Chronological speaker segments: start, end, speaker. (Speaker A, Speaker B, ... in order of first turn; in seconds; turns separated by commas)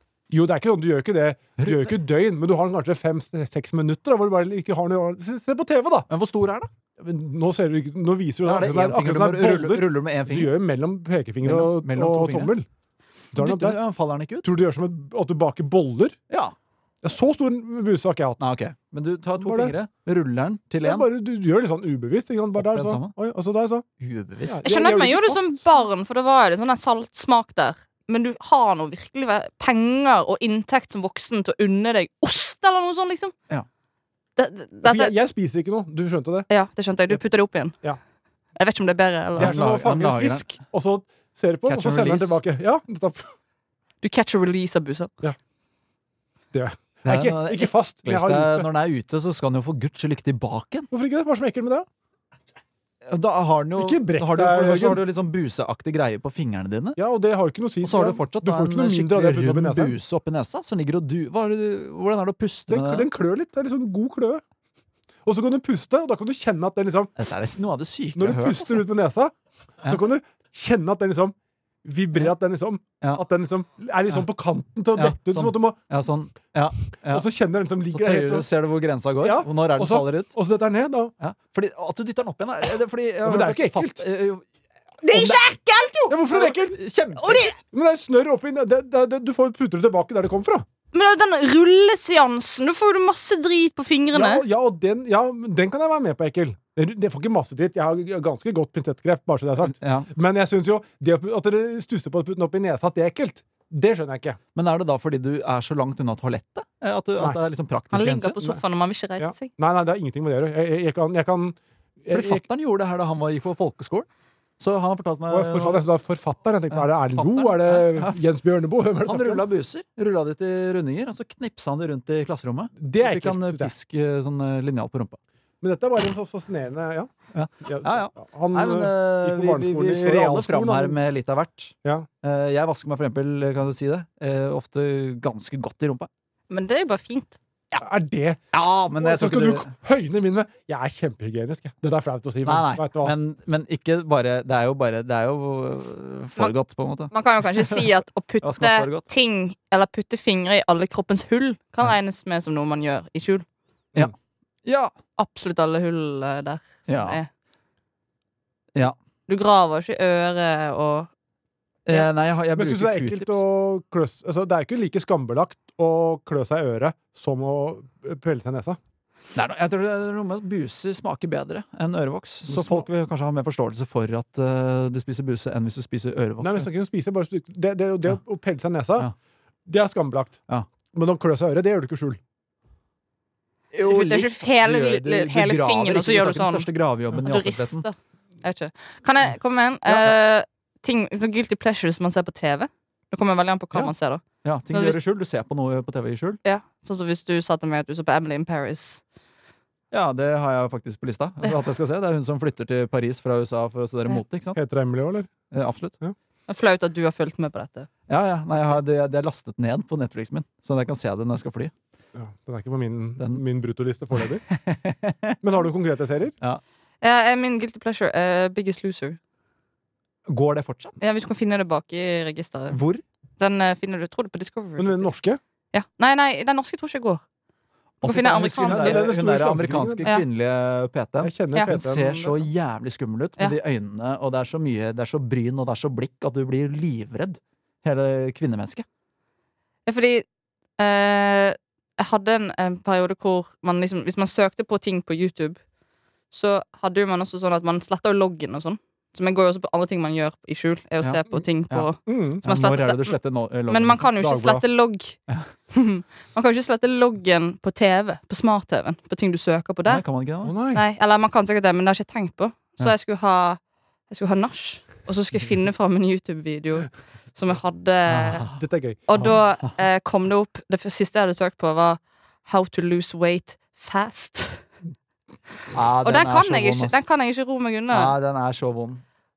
Speaker A: 0.3-6.0, Speaker B: 1.6-1.9, Speaker B: 6.1-6.7, Speaker A: 7.0-12.7, Speaker B: 8.4-10.5, Speaker B: 11.4-12.5, Speaker A: 13.3-13.8, Speaker B: 13.3-14.5, Speaker A: 14.4-16.2, Speaker A: 17.0-18.4, Speaker B: 18.4-21.1, Speaker A: 19.4-19.7, Speaker A: 20.8-23.8, Speaker B: 22.6-23.1, Speaker B: 24.0-24.6, Speaker A: 24.4-25.6, Speaker C: 24.6-33.3, Speaker C: 34.4-35.1, Speaker A: 34.8-36.5, Speaker C: 36.5-37.7, Speaker C: 38.5-39.6, Speaker A: 39.4-43.3, Speaker B: 39.4-40.5, Speaker B: 41.6-42.4, Speaker C: 44.0-45.1, Speaker A: 46.5-48.7, Speaker B: 47.0-50.9, Speaker A: 50.9-51.9, Speaker B: 53.0-57.0, Speaker A: 53.8-55.0, Speaker A: 57.0-60.0, Speaker B: 57.8-63.1, Speaker A: 62.7-64.4, Speaker A: 65.2-67.1, Speaker B: 67.2-68.8, Speaker A: 68.2-75.8, Speaker B: 74.9-77.3, Speaker A: 77.1-78.5, Speaker B: 77.9-80.3, Speaker A: 79.2-81.1, Speaker B: 81.2-84.4, Speaker A: 83.2-84.0, Speaker C: 85.0-86.2, Speaker A: 86.1-86.8, Speaker B: 86.3-87.5, Speaker C: 87.2-87.5, Speaker A: 87.7-90.7, Speaker C: 90.9-94.4, Speaker A: 94.1-104.4, Speaker B: 99.7-100.1, Speaker B: 104.5-108.3, Speaker C: 107.9-109.5, Speaker A: 109.2-112.4, Speaker B: 112.1-114.0, Speaker B: 114.6-115.8, Speaker A: 115.3-119.4, Speaker B: 116.7-118.2, Speaker B: 119.0-125.2, Speaker A: 122.8-123.7, Speaker A: 125.6-127.1, Speaker B: 127.3-136.1, Speaker A: 127.6-131.0, Speaker C: 136.5-137.4, Speaker A: 137.8-138.4, Speaker B: 138.5-139.7, Speaker A: 138.9-143.1, Speaker B: 142.4-147.8, Speaker C: 147.1-153.4, Speaker B: 148.4-149.1, Speaker B: 154.6-154.9, Speaker C: 155.2-157.3, Speaker B: 156.9-157.2, Speaker C: 159.3-161.1, Speaker B: 161.8-163.4, Speaker A: 162.5-168.8, Speaker B: 169.3-176.7, Speaker A: 172.5-172.8, Speaker A: 176.4-179.1, Speaker A: 179.7-180.4, Speaker A: 180.9-182.2, Speaker B: 183.7-187.8, Speaker C: 183.8-195.0, Speaker B: 189.9-190.1, Speaker B: 194.4-196.4, Speaker C: 196.4-199.0, Speaker B: 199.9-204.6, Speaker A: 204.5-205.3, Speaker B: 205.5-205.9, Speaker C: 206.5-207.9, Speaker B: 208.1-211.7, Speaker A: 212.2-214.4, Speaker B: 214.5-215.3, Speaker A: 215.4-216.3, Speaker C: 217.0-219.2, Speaker B: 220.3-220.9, Speaker C: 221.0-222.8, Speaker B: 222.7-223.0, Speaker C: 223.4-225.1, Speaker A: 224.8-225.4, Speaker C: 225.7-227.2, Speaker B: 228.0-238.8, Speaker C: 228.0-229.1, Speaker A: 228.4-230.1, Speaker A: 231.2-232.3, Speaker C: 231.5-232.3, Speaker C: 239.8-240.2, Speaker C: 240.8-245.6, Speaker C: 246.3-253.2, Speaker B: 251.0-251.9, Speaker A: 252.1-252.4, Speaker B: 252.4-254.1, Speaker C: 253.7-255.2, Speaker A: 254.2-254.6, Speaker C: 255.7-260.0, Speaker B: 259.9-260.5, Speaker A: 260.4-260.8, Speaker C: 260.7-268.4, Speaker B: 268.1-268.6, Speaker A: 268.5-269.3, Speaker C: 269.1-274.7, Speaker B: 275.7-277.0, Speaker C: 276.0-278.1, Speaker B: 277.9-279.0